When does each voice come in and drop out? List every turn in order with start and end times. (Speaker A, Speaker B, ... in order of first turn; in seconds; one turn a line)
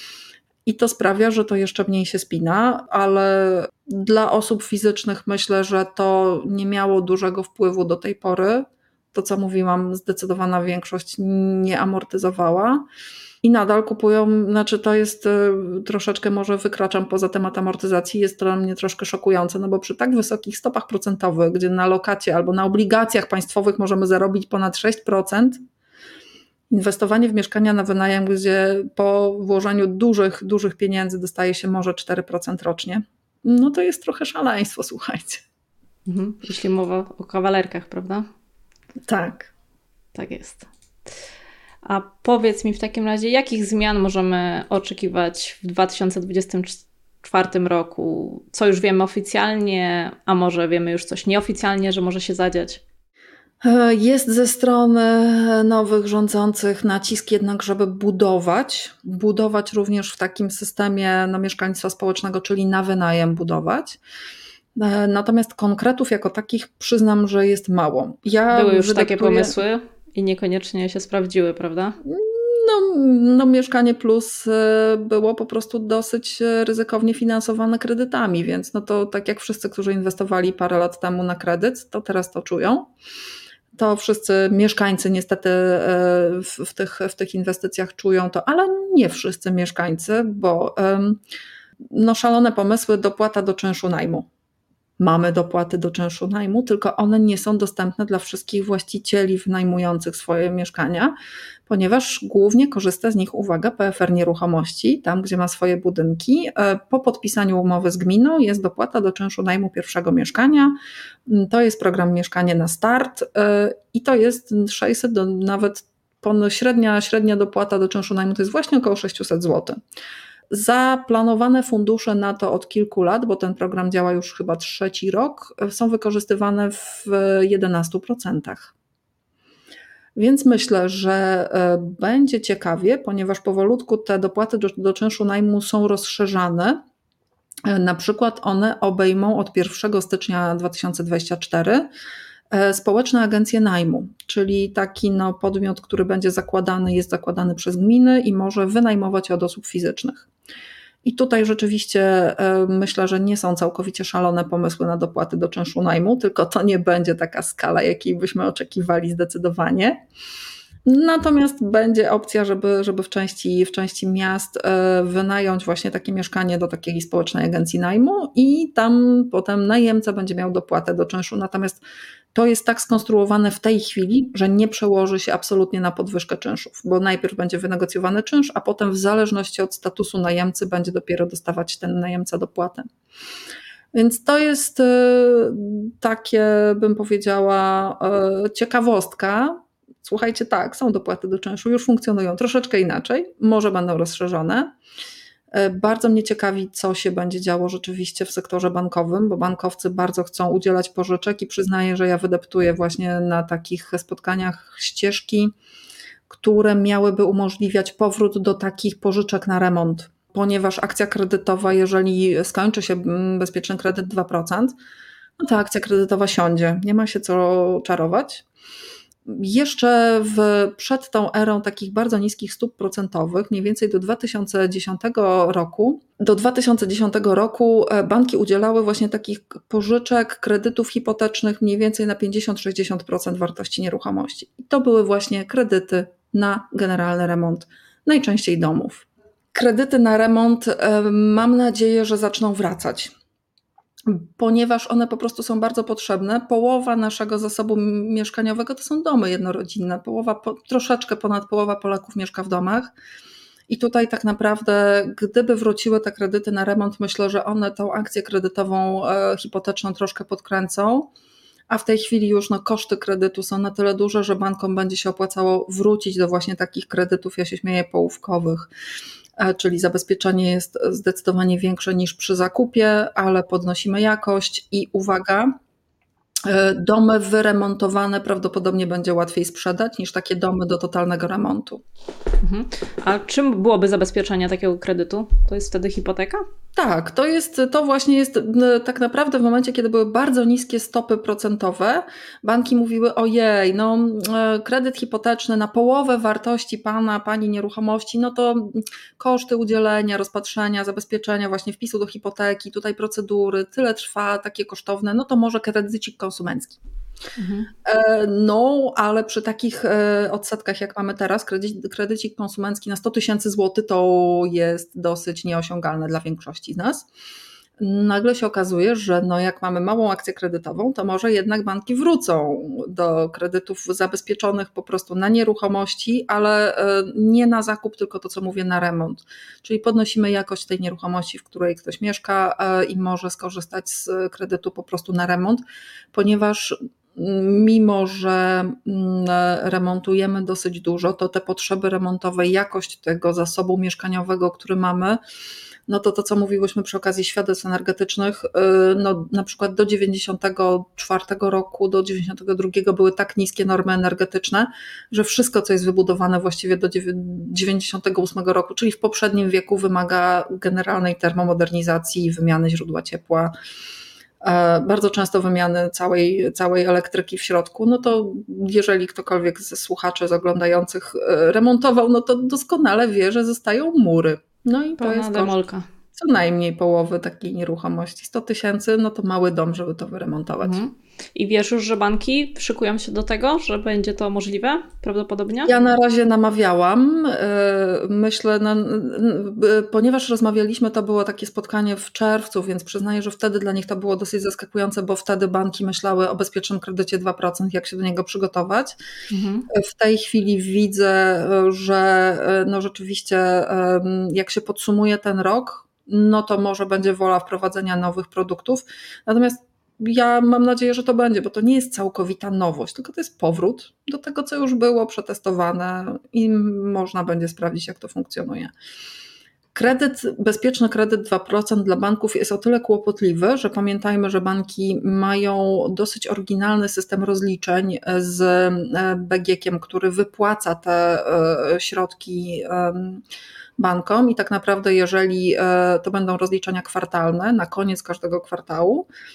Speaker A: 0.7-12.8
Speaker A: 13.4-25.6
Speaker A: 26.7-35.4
Speaker B: 36.1-38.3
Speaker A: 39.1-39.5
Speaker B: 40.1-40.6
Speaker B: 41.8-52.8
Speaker A: 53.6-64.0
Speaker A: 64.8-69.6
Speaker B: 68.5-72.0
Speaker A: 72.0-82.9
Speaker A: 83.7-91.2
Speaker A: 91.9-94.3
Speaker A: 95.0-101.2
Speaker A: 101.7-119.8
Speaker A: 120.5-128.7
Speaker A: 130.2-136.8
Speaker A: 137.7-141.9
Speaker A: 142.5-150.3
Speaker A: 151.0-160.0
Speaker A: 160.9-171.8
Speaker A: 172.3-182.9
Speaker A: 183.9-194.7
Speaker A: 195.5-205.5
Speaker A: 206.3-214.7
Speaker A: 215.4-218.4
Speaker A: 219.3-243.1
Speaker A: 244.1-252.9
Speaker A: 253.7-261.1
Speaker A: 261.7-268.7
Speaker A: 269.4-275.5
Speaker A: 276.4-281.8
Speaker B: 282.4-286.4
Speaker A: 286.8-306.8
Speaker B: 307.4-307.7
Speaker A: 307.9-317.1
Speaker A: 317.8-345.2
Speaker A: 345.9-363.5
Speaker A: 364.4-375.6
Speaker B: 375.0-375.9
Speaker A: 376.1-380.9
Speaker B: 380.6-385.7
Speaker A: 385.7-399.0
Speaker B: 399.3-399.7
Speaker A: 399.7-418.7
Speaker A: 419.7-433.2
Speaker A: 433.8-439.1